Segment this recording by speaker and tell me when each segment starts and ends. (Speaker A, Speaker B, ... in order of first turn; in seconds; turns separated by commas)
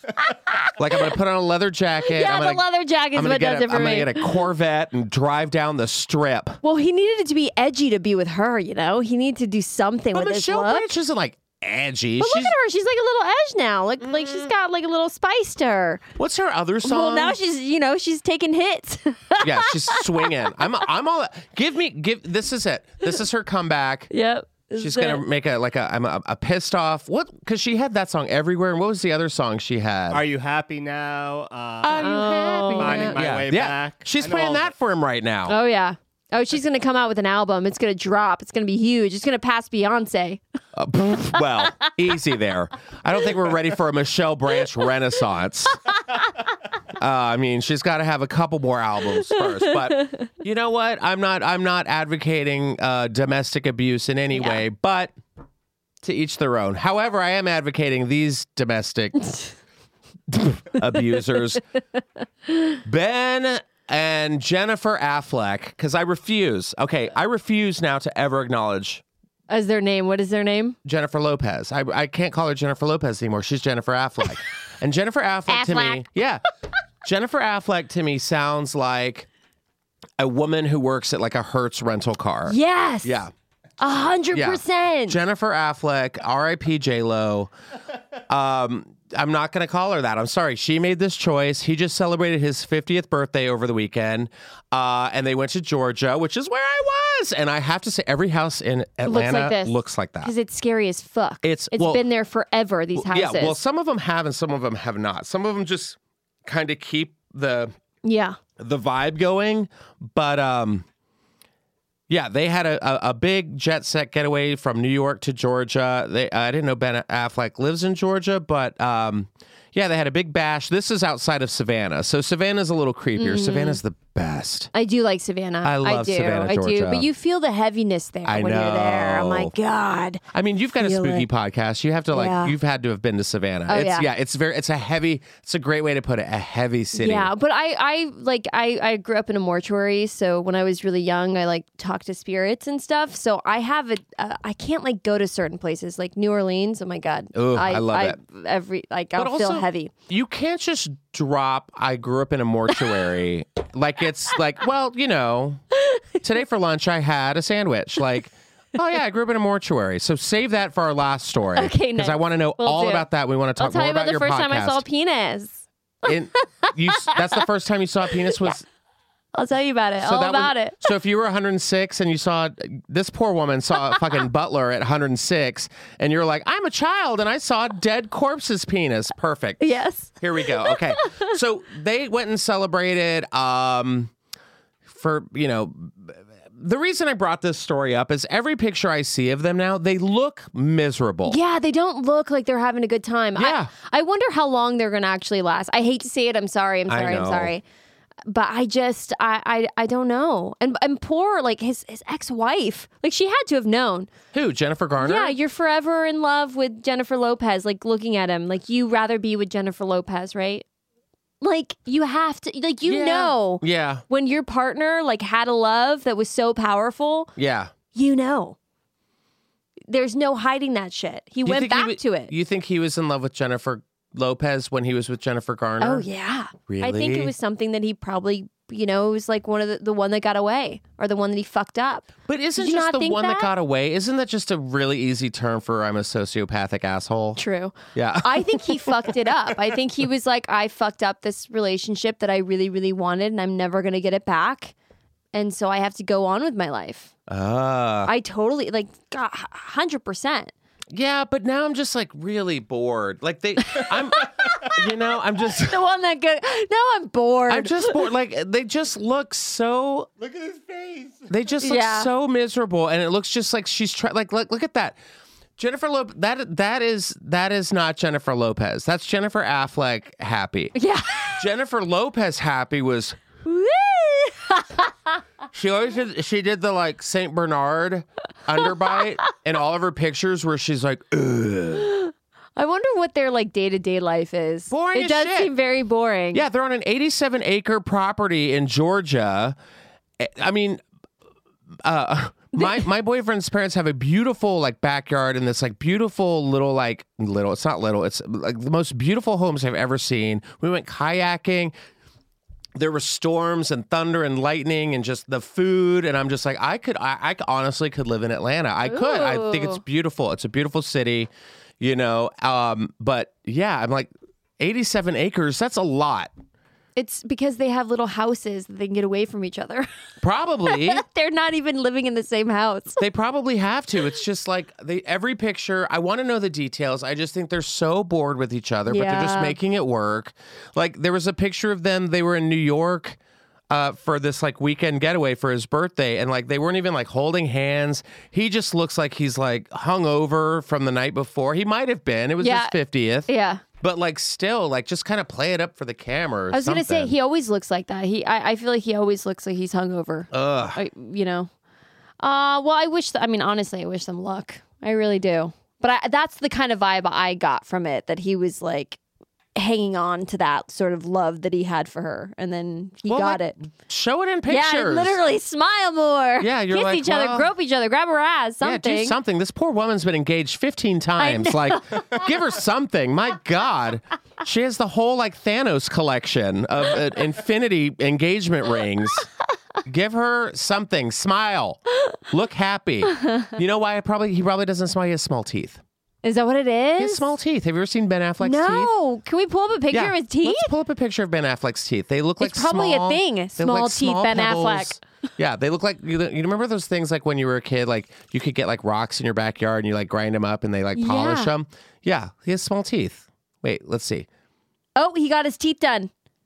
Speaker A: 0.2-1.1, Speaker B: 0.8-6.6, Speaker A: 2.0-4.4, Speaker A: 6.6-10.9, Speaker B: 10.1-12.6, Speaker A: 12.2-16.1, Speaker B: 14.2-14.5, Speaker B: 16.2-17.4, Speaker A: 16.8-20.6, Speaker B: 19.4-24.1, Speaker A: 24.1-25.2, Speaker B: 24.8-30.2, Speaker C: 30.1-32.1, Speaker B: 31.8-35.6, Speaker A: 31.9-33.2, Speaker C: 32.8-34.7, Speaker A: 35.5-40.4, Speaker B: 40.8-45.9, Speaker A: 41.6-41.9, Speaker B: 47.0-55.1, Speaker A: 49.3-50.3, Speaker A: 54.3-54.6, Speaker B: 56.0-59.3, Speaker B: 60.3-61.6, Speaker A: 62.5-62.8, Speaker B: 62.9-69.0, Speaker A: 69.5-70.8, Speaker B: 70.8-76.4, Speaker A: 75.5-76.0, Speaker B: 77.0-79.3, Speaker B: 80.2-83.3, Speaker A: 82.5-83.2, Speaker A: 83.8-85.2, Speaker B: 84.3-87.5, Speaker B: 88.3-100.3, Speaker A: 99.0-103.6, Speaker B: 101.4-102.0, Speaker B: 103.0-107.7, Speaker A: 108.0-108.4, Speaker B: 108.6-110.9, Speaker B: 112.1-124.7, Speaker A: 123.2-123.8, Speaker A: 124.7-130.2, Speaker B: 125.6-127.1, Speaker B: 128.3-129.5, Speaker B: 130.3-137.3, Speaker A: 130.8-131.3, Speaker A: 132.1-132.6, Speaker A: 133.7-134.1, Speaker A: 136.9-149.9, Speaker B: 147.3-148.2, Speaker B: 149.2-155.6, Speaker A: 155.8-156.1, Speaker B: 156.2-164.8, Speaker A: 161.6-163.1, Speaker A: 163.6-167.4, Speaker B: 166.0-168.6, Speaker A: 169.3-170.8, Speaker B: 170.0-179.7, Speaker A: 179.6-181.3, Speaker B: 180.2-184.1, Speaker B: 184.9-191.4, Speaker A: 191.3-197.6, Speaker B: 193.4-193.7, Speaker B: 196.9-197.5, Speaker A: 198.3-204.1, Speaker B: 204.3-205.3, Speaker A: 205.0-210.7, Speaker A: 211.4-217.3, Speaker B: 212.9-214.0, Speaker B: 217.4-217.7, Speaker A: 217.9-218.6, Speaker A: 219.9-222.3, Speaker B: 221.4-226.1, Speaker A: 225.8-233.5, Speaker B: 226.7-227.3, Speaker B: 232.3-237.4, Speaker A: 237.4-244.7, Speaker B: 237.9-239.0, Speaker A: 245.3-247.1, Speaker B: 247.3-248.1, Speaker A: 248.1-250.5, Speaker B: 250.9-255.8, Speaker A: 253.7-254.8, Speaker A: 255.5-258.1, Speaker B: 257.5-260.1, Speaker C: 260.2-261.3, Speaker B: 261.3-265.0, Speaker A: 261.6-262.1, Speaker B: 265.6-270.8, Speaker A: 270.8-271.4, Speaker B: 271.4-273.2, Speaker A: 273.4-274.9, Speaker B: 275.5-281.9, Speaker A: 281.8-286.4, Speaker B: 284.7-285.5, Speaker B: 286.3-289.6, Speaker B: 290.2-290.8, Speaker B: 291.8-301.7, Speaker B: 302.8-316.3, Speaker A: 308.9-309.8, Speaker A: 317.0-319.9, Speaker B: 320.2-321.0, Speaker A: 320.7-323.0, Speaker B: 323.0-333.2, Speaker A: 328.9-329.6, Speaker B: 333.7-343.3, Speaker A: 342.4-342.8, Speaker A: 343.3-343.6, Speaker B: 343.8-347.1, Speaker A: 346.5-351.5, Speaker B: 350.3-350.8, Speaker A: 352.2-359.0, Speaker A: 359.6-363.6, Speaker B: 363.1-365.2, Speaker A: 364.5-369.2, Speaker B: 366.4-367.5, Speaker B: 368.6-379.3, Speaker A: 371.2-372.3, Speaker B: 379.9-385.8, Speaker A: 383.1-383.6, Speaker A: 386.2-387.3, Speaker B: 387.0-388.9, Speaker A: 388.4-390.7, Speaker B: 389.9-404.3, Speaker A: 392.4-395.0, Speaker A: 400.9-401.5, Speaker A: 405.0-406.1